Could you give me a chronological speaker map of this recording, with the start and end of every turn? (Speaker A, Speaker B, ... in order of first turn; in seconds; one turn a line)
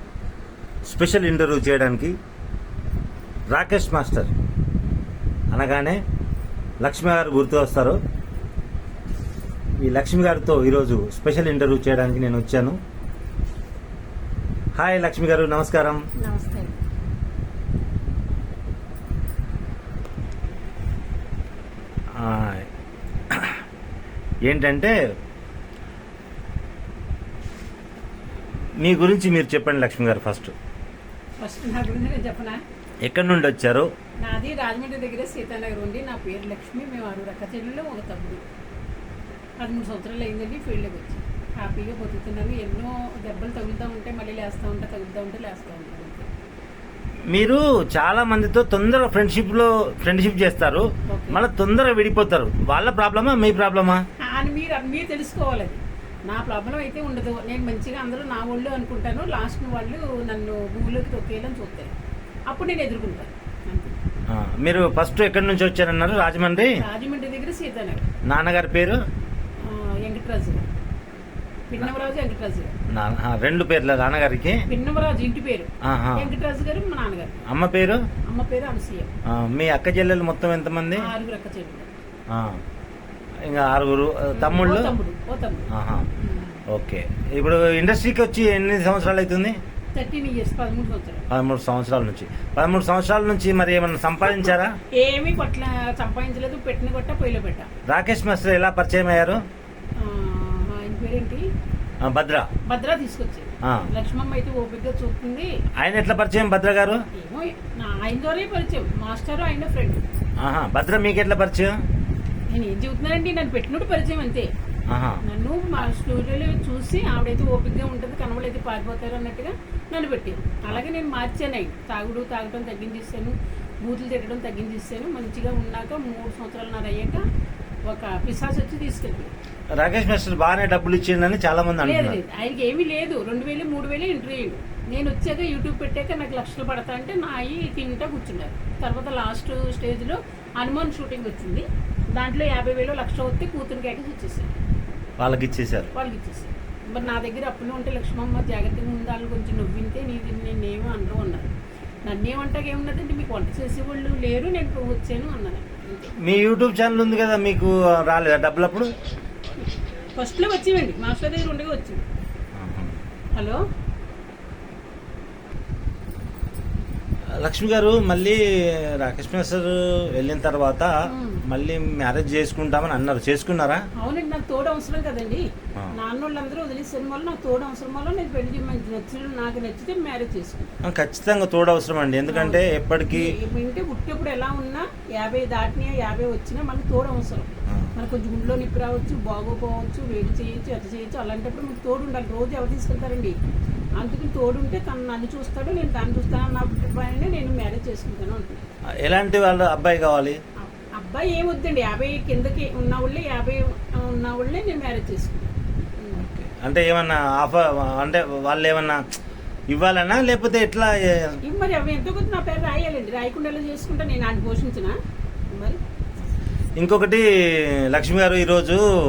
Speaker A: 0.9-2.1
Speaker A: 3.5-4.3
Speaker A: 5.5-6.0
Speaker A: 6.8-8.0
Speaker A: 9.8-12.8
Speaker A: 14.8-16.0
Speaker B: 16.2-16.8
Speaker A: 22.2-22.7
Speaker A: 23.3-23.6
Speaker A: 24.5-24.9
Speaker A: 28.8-30.5
Speaker B: 31.4-32.6
Speaker A: 33.0-33.9
Speaker B: 34.2-38.4
Speaker B: 39.6-46.3
Speaker A: 47.3-54.0
Speaker B: 51.1-51.4
Speaker B: 54.3-61.9
Speaker B: 62.5-64.0
Speaker A: 64.3-66.7
Speaker B: 66.8-68.1
Speaker A: 68.3-69.0
Speaker B: 69.6-70.7
Speaker B: 71.7-72.7
Speaker A: 72.9-74.6
Speaker B: 74.7-77.4
Speaker A: 75.8-76.3
Speaker A: 77.5-78.0
Speaker B: 78.3-79.1
Speaker A: 79.3-81.1
Speaker B: 81.0-81.9
Speaker A: 82.3-82.6
Speaker A: 83.5-84.9
Speaker B: 84.3-86.6
Speaker A: 85.7-86.1
Speaker A: 86.7-89.5
Speaker B: 90.0-91.2
Speaker A: 91.3-94.8
Speaker B: 94.3-97.7
Speaker A: 97.9-99.4
Speaker B: 100.0-101.5
Speaker A: 102.0-102.5
Speaker B: 102.7-105.5
Speaker A: 105.8-107.0
Speaker B: 107.2-110.0
Speaker A: 110.4-111.7
Speaker B: 112.5-114.5
Speaker A: 114.9-115.2
Speaker B: 115.2-127.2
Speaker B: 127.9-129.3
Speaker A: 129.8-132.2
Speaker B: 131.8-144.5
Speaker A: 145.2-145.9
Speaker B: 145.9-151.5
Speaker B: 152.1-156.1
Speaker A: 156.2-158.9
Speaker B: 160.2-162.0
Speaker A: 162.6-162.9
Speaker B: 163.3-163.6
Speaker A: 167.4-168.4
Speaker A: 169.0-170.9
Speaker B: 171.1-171.4
Speaker A: 171.5-173.8
Speaker B: 174.0-180.7
Speaker A: 180.8-183.3
Speaker B: 182.3-193.3
Speaker B: 194.0-198.6
Speaker A: 199.1-200.4
Speaker B: 200.6-206.2
Speaker A: 206.2-209.0
Speaker A: 209.7-211.4
Speaker B: 211.4-215.0
Speaker B: 215.5-215.8
Speaker A: 216.8-217.2
Speaker A: 217.9-218.8